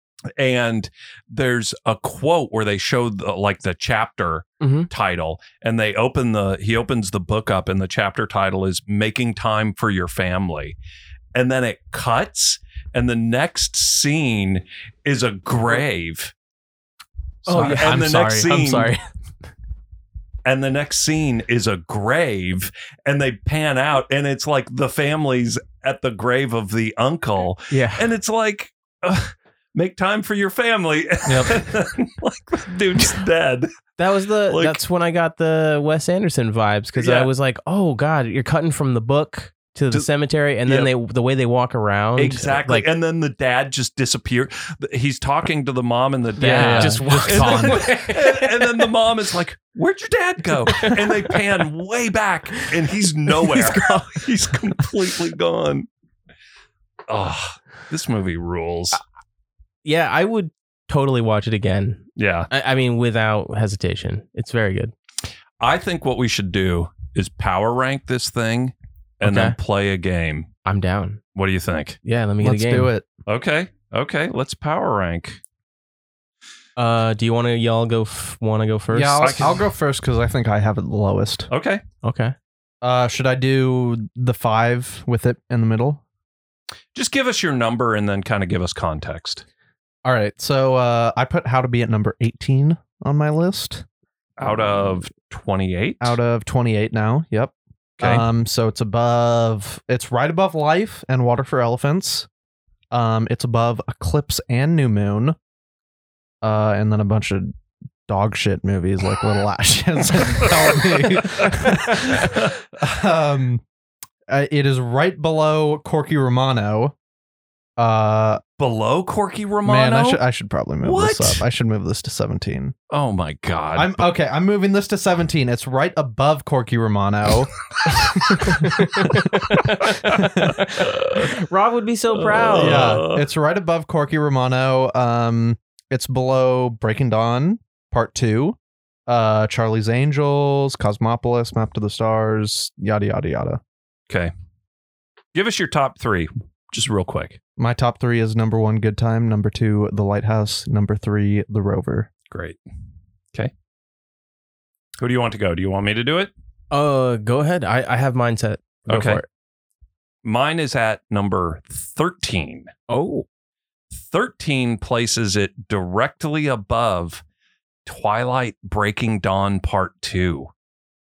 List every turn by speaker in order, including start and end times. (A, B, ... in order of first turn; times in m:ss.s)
0:00.4-0:10.8 A
0:04.6-0:04.9 B
0:11.3-0:16.3 A
0:17.4-0:18.9 A
0:17.4-0:19.0 B
0:20.4-0:33.7 A
0:27.7-0:28.0 B
0:31.3-0:31.6 C
0:34.0-0:42.9 B
0:34.5-0:34.8 A
0:37.0-0:37.3 A
0:40.6-0:40.9 A
0:42.2-0:55.9 A
0:46.4-0:48.9 B
0:46.4-0:47.8 C
0:50.7-0:51.4 B
0:53.4-0:54.8 B
0:57.1-0:59.0 A
0:59.8-1:04.9 B
1:02.2-1:02.5 A
1:05.6-1:10.5 A
1:09.2-1:09.6 B
1:10.6-1:11.2 B
1:11.3-1:12.0 A
1:12.0-1:12.9 B
1:12.4-1:13.1 C
1:13.3-1:15.4 A
1:16.8-1:19.6 B
1:18.9-1:21.5 C
1:19.2-1:19.6 A
1:21.5-1:21.8 A
1:22.0-1:22.3 B
1:22.8-1:26.0 C
1:26.9-1:29.4 A
1:30.0-1:33.8 C
1:34.4-1:36.2 A
1:36.0-1:42.3 C
1:38.0-1:38.2 A
1:42.9-1:45.4 C
1:46.4-1:47.5 C
1:48.1-1:53.6 C
1:52.2-1:52.5 A
1:54.3-1:56.9 C
1:57.8-1:58.4 C
1:58.6-2:00.2 A
1:59.6-2:02.7 C
2:00.8-2:01.4 A
2:02.9-2:04.1 A
2:03.7-2:10.6 C
2:08.5-2:12.9 B
2:09.5-2:11.3 A
2:12.1-2:13.3 A
2:12.6-2:23.6 C
2:25.3-2:27.4 A
2:27.6-2:32.1 C
2:32.3-2:32.6 A
2:35.0-2:36.3 A
2:36.7-2:39.3 B
2:38.9-2:39.2 A
2:40.2-2:42.7 A
2:42.9-2:43.2 B
2:43.9-2:47.2 A
2:47.8-2:50.5 A